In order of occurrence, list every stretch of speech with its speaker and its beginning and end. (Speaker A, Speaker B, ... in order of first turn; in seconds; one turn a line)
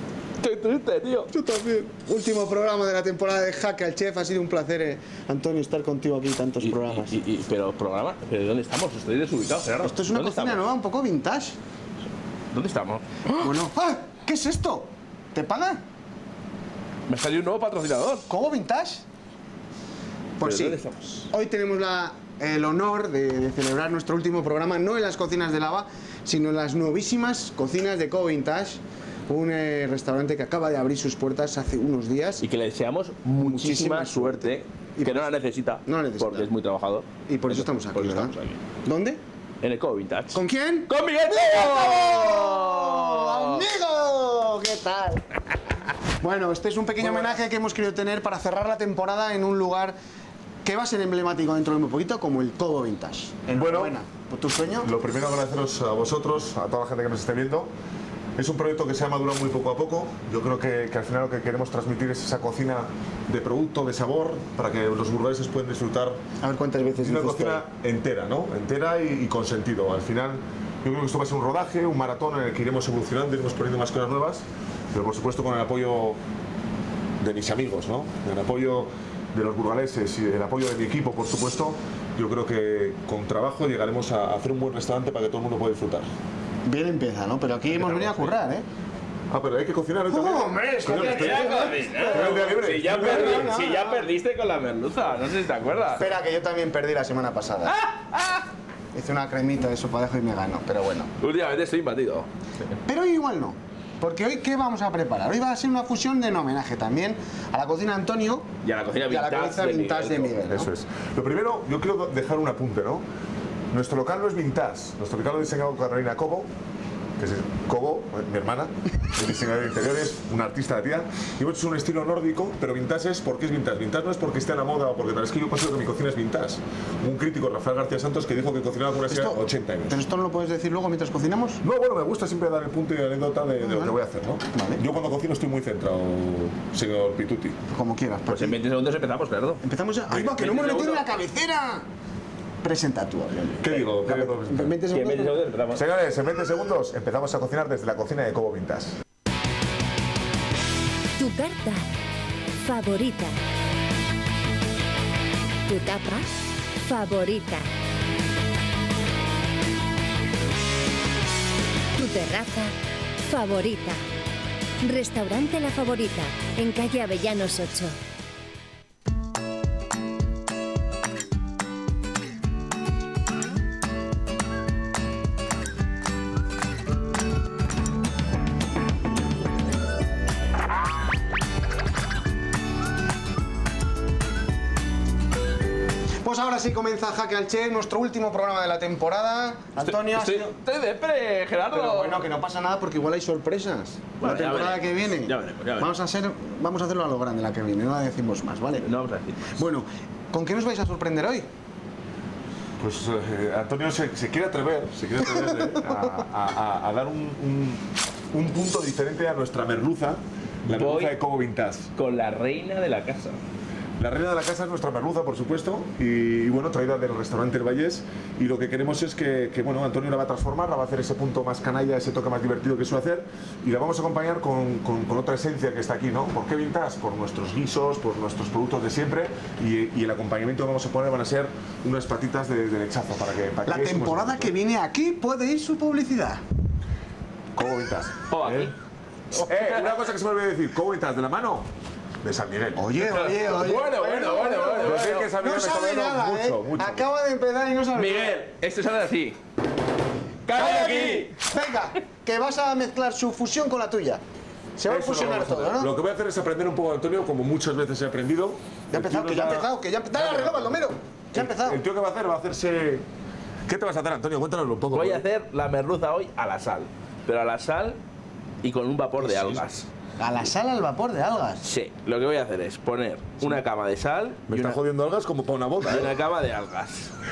Speaker A: 0.4-1.3
Speaker B: 1.3-7.2
Speaker A: 6.6-10.7
Speaker B: 9.8-11.6
Speaker A: 12.5-13.4
Speaker B: 13.3-15.8
Speaker A: 17.1-18.3
Speaker B: 18.3-19.0
Speaker B: 20.4-32.4
Speaker A: 20.4-21.3
Speaker A: 32.4-38.6
Speaker B: 33.4-35.3
Speaker B: 35.9-36.5
Speaker B: 37.3-38.3
Speaker B: 38.8-39.2
Speaker A: 39.6-43.6
Speaker B: 40.3-45.4
Speaker B: 46.2-49.9
Speaker A: 47.0-47.3
Speaker B: 50.6-54.9
Speaker C: 53.5-54.0
Speaker C: 54.8-57.7
Speaker C: 58.4-66.2
Speaker B: 66.4-67.6
Speaker C: 67.0-76.2
Speaker C: 77.2-86.1
Speaker B: 86.7-88.6
Speaker C: 87.8-88.3
Speaker C: 89.3-93.6
Speaker B: 90.1-94.0
Speaker A: 90.8-96.1
Speaker B: 96.0-97.7
Speaker A: 97.7-98.4
Speaker B: 98.9-101.1
Speaker A: 101.2-102.3
Speaker B: 102.8-108.5
Speaker A: 108.6-110.5
Speaker B: 109.0-110.7
Speaker C: 110.5-113.0
Speaker C: 113.7-116.5
Speaker C: 117.2-130.0
Speaker B: 129.1-131.6
Speaker C: 131.6-137.6
Speaker B: 133.6-133.9
Speaker B: 134.5-134.8
Speaker B: 137.7-138.6
Speaker A: 138.3-141.0
Speaker B: 139.6-141.8
Speaker B: 142.6-145.4
Speaker C: 143.6-144.7
Speaker A: 144.9-145.8
Speaker C: 145.7-149.0
Speaker D: 151.2-151.9
Speaker D: 152.6-153.3
Speaker D: 155.7-157.7
Speaker D: 161.9-164.0
Speaker D: 164.8-168.0
Speaker B: 186.2-190.5
Speaker A: 189.8-192.2
Speaker B: 191.7-198.9
Speaker A: 194.2-195.9
Speaker A: 198.8-199.6
Speaker B: 199.5-201.5
Speaker C: 202.8-211.9
Speaker A: 210.7-211.2
Speaker A: 211.9-213.4
Speaker C: 214.0-234.5
Speaker B: 233.7-236.4
Speaker C: 237.5-238.7
Speaker A: 238.3-238.7
Speaker A: 239.3-240.0
Speaker C: 239.4-241.7
Speaker C: 242.2-243.4
Speaker B: 242.8-248.4
Speaker A: 243.3-245.3
Speaker C: 244.8-247.1
Speaker A: 247.9-249.4
Speaker A: 250.4-251.4
Speaker B: 250.5-254.2
Speaker B: 254.8-255.9
Speaker C: 254.9-260.8
Speaker B: 258.9-261.8
Speaker C: 261.3-263.1
Speaker C: 263.7-265.2
Speaker A: 264.9-268.0
Speaker A: 268.6-269.9
Speaker B: 270.2-271.6
Speaker A: 271.6-274.8
Speaker C: 274.5-276.1
Speaker A: 275.8-277.1